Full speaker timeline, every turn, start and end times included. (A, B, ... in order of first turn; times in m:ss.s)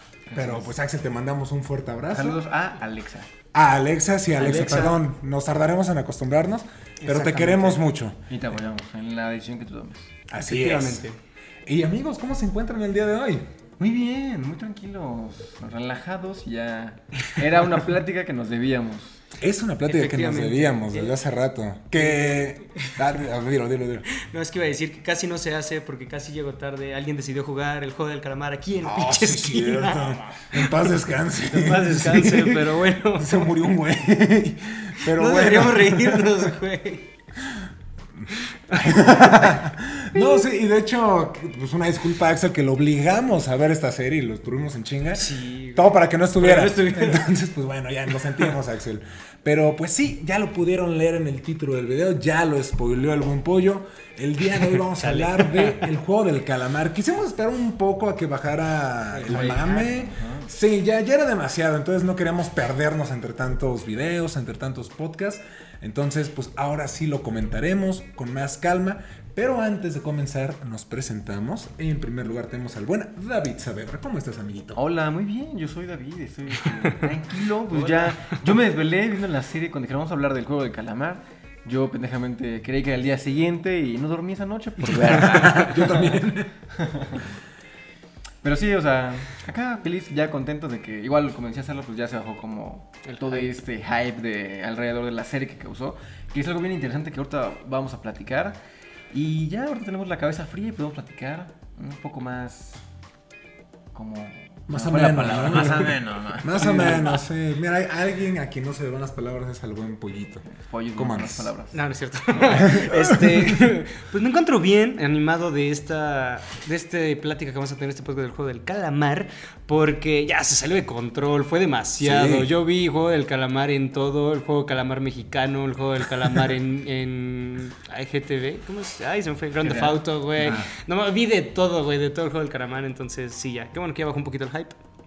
0:00.3-0:00.7 A
0:00.3-0:02.4 B
0:02.1-0:03.3 A
0:03.5-0:08.2 B
0:04.4-0:05.0 C
0:04.4-0:05.0 A
0:07.0-0:07.8 C
0:08.3-0:10.1 A
0:10.3-0:11.0 B
0:10.4-0:11.2 C
0:11.6-0:13.5 B
0:13.8-0:19.2 A
0:19.4-0:24.1 B
0:19.9-0:21.2 C
0:22.0-0:22.9 C
0:24.2-0:33.5 C
0:28.8-0:36.5 B
0:35.0-0:37.1 C
0:38.3-0:39.5 C
0:38.7-1:14.8 B
0:45.1-0:47.3 C
0:54.9-0:55.9 C
0:59.1-1:00.5 A
1:14.7-1:26.2 A
1:17.7-1:18.4 C
1:25.0-1:26.5 B
1:25.0-1:25.9 C
1:26.7-1:27.2 A
1:28.4-1:38.6 A
1:33.0-1:33.5 C
1:39.1-1:42.8 A
1:43.9-1:47.2 A
1:44.7-1:51.5 B
1:50.5-1:51.8 A
1:51.7-2:14.8 C
1:52.6-1:53.5 B
2:02.0-2:02.5 B
2:09.6-2:10.6 A
2:10.4-2:10.7 B